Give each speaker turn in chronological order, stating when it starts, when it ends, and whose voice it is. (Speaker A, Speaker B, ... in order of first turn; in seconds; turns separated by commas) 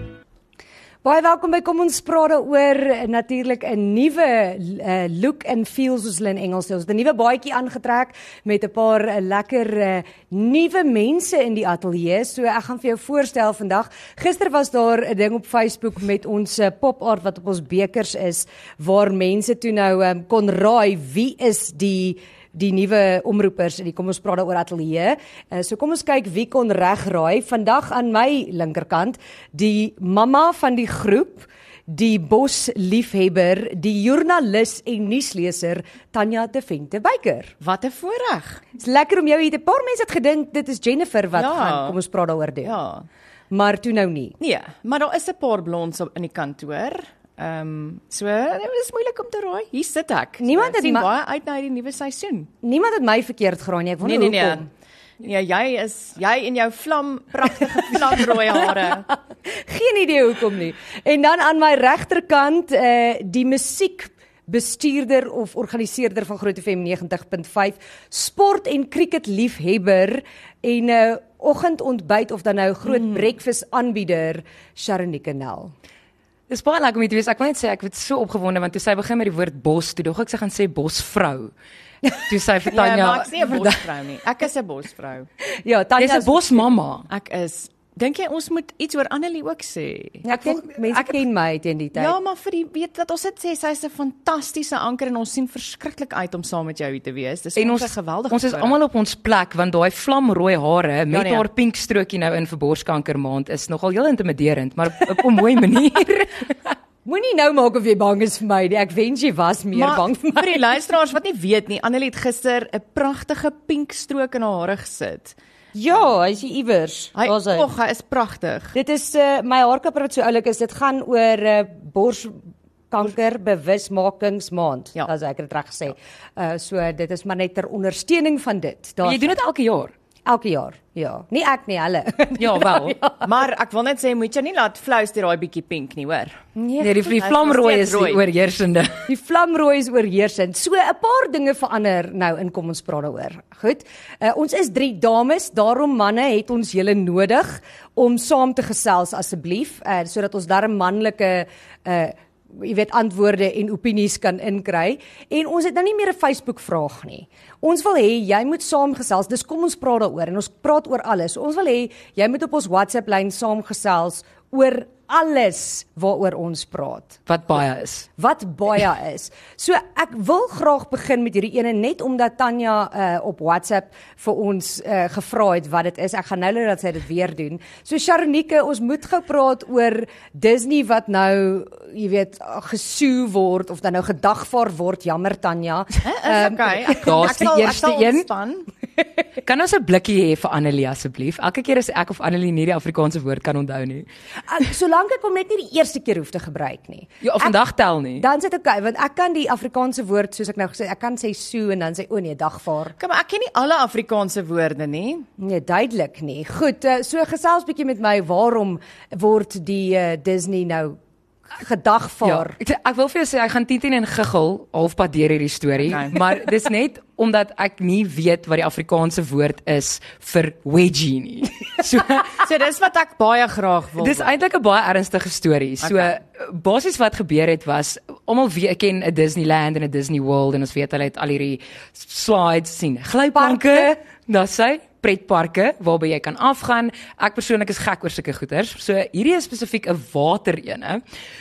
Speaker A: 1.0-37.5, Speaker B: 37.6-38.6, Speaker A: 38.8-42.8, Speaker B: 41.3-42.0, Speaker B: 42.6-43.0, Speaker A: 43.5-44.3, Speaker B: 44.4-52.5, Speaker A: 50.4-51.1, Speaker A: 52.6-54.6, Speaker B: 54.0-54.6, Speaker B: 55.2-59.0, Speaker A: 57.9-75.7, Speaker B: 72.8-73.2, Speaker C: 76.5-81.5, Speaker C: 82.2-83.8, Speaker B: 82.7-85.3, Speaker A: 85.6-86.6, Speaker C: 86.0-87.1, Speaker B: 87.1-90.2, Speaker A: 90.2-92.1, Speaker C: 90.3-91.2, Speaker B: 91.9-98.8, Speaker C: 97.5-106.7, Speaker B: 101.1-101.5, Speaker A: 107.0-110.6, Speaker B: 109.7-115.3, Speaker A: 115.7-117.7, Speaker B: 117.1-118.8, Speaker A: 118.7-129.3, Speaker C: 129.0-129.9, Speaker A: 130.2-133.3, Speaker C: 132.4-132.9, Speaker B: 133.2-136.4, Speaker A: 136.6-137.1, Speaker C: 136.8-139.0, Speaker B: 137.1-138.2, Speaker A: 139.1-167.2, Speaker C: 167.3-168.1, Speaker A: 168.2-187.3, Speaker B: 186.0-188.7, Speaker C: 187.0-188.3, Speaker C: 189.4-194.1, Speaker A: 194.5-197.6, Speaker C: 197.2-198.2, Speaker A: 198.2-202.9, Speaker B: 203.0-205.2, Speaker A: 205.4-211.0, Speaker A: 211.5-212.6, Speaker C: 212.2-222.4, Speaker B: 215.8-216.2, Speaker B: 222.4-224.3, Speaker C: 224.0-241.0, Speaker B: 225.8-226.1, Speaker A: 233.3-234.0